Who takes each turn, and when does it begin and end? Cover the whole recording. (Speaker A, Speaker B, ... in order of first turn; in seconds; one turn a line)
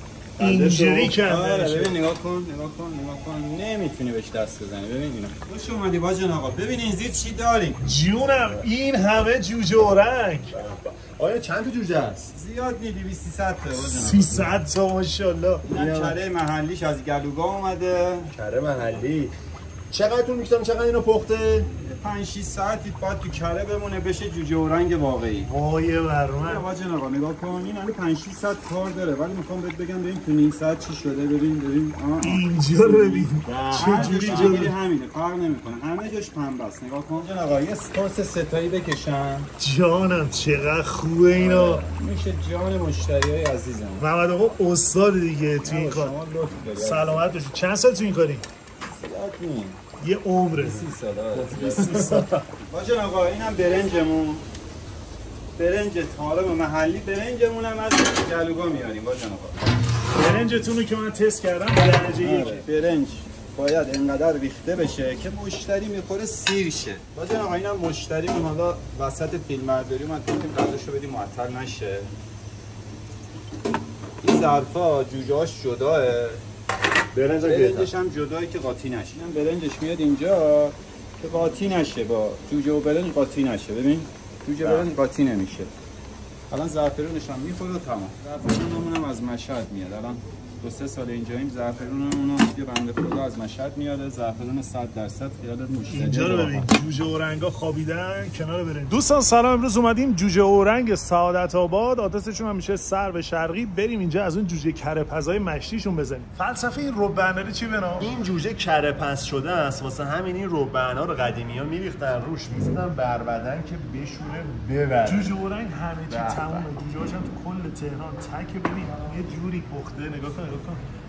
Speaker A: 0.4-7.8
Speaker B: 0.4-2.0
Speaker B: 7.8-10.5
Speaker C: 10.5-12.3
Speaker A: 12.3-14.6
Speaker B: 13.7-15.7
Speaker C: 15.6-16.2
Speaker A: 15.7-18.3
Speaker C: 18.4-19.3
Speaker C: 19.9-21.7
Speaker A: 21.8-25.5
Speaker B: 25.4-26.7
Speaker A: 26.4-39.5
Speaker B: 32.2-34.7
Speaker C: 33.5-34.7
Speaker B: 39.6-41.8
Speaker A: 41.3-44.1
Speaker B: 44.0-46.2
Speaker A: 45.6-47.3
Speaker B: 46.7-48.5
Speaker A: 48.9-49.8
Speaker B: 50.0-50.9
Speaker A: 50.6-52.1
Speaker C: 51.3-52.4
Speaker B: 51.7-52.3
Speaker A: 52.7-54.4
Speaker A: 55.6-59.6
Speaker B: 60.1-62.6
Speaker A: 62.2-72.1
Speaker A: 74.2-76.4
Speaker C: 77.1-77.9
Speaker A: 77.4-85.7
Speaker C: 84.6-84.9
Speaker A: 86.5-96.7
Speaker B: 95.9-108.1
Speaker C: 108.0-115.3
Speaker B: 115.0-120.8
Speaker C: 116.1-116.7